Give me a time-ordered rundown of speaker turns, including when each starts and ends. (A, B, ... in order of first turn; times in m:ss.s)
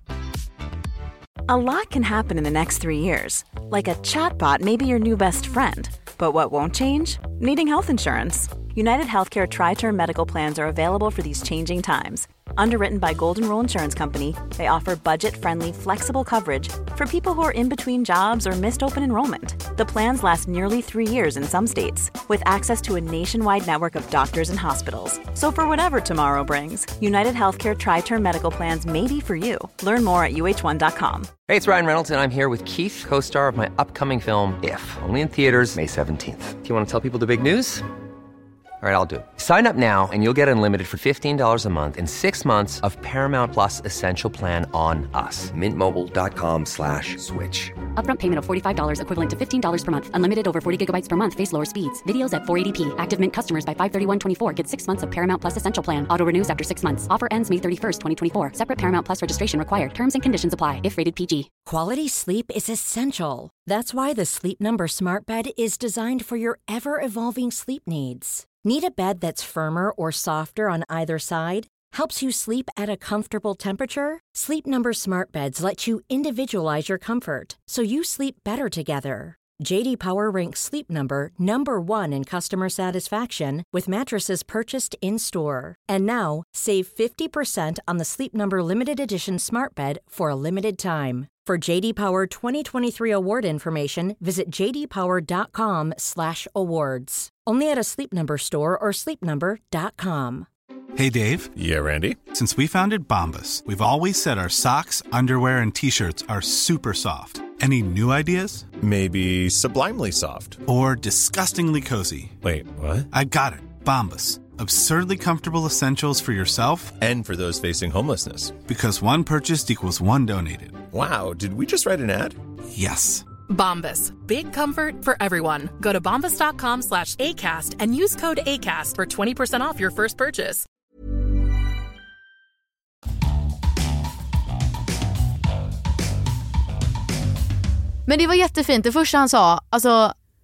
0:01.5-0:31.3 A
0:31.4-0:37.8 B
0:38.8-0:47.7 B
0:48.0-1:01.5 C
1:01.6-1:40.5 D
1:41.0-1:48.8 E
1:41.6-1:42.2 F
1:48.8-1:50.6 F
1:50.6-1:57.0 E
1:52.4-1:53.0 F
1:57.0-1:58.6 F
1:58.5-2:01.8 E
2:00.9-2:02.4 F
2:02.7-2:03.3 E
2:03.5-2:10.6 G
2:18.1-2:20.1 H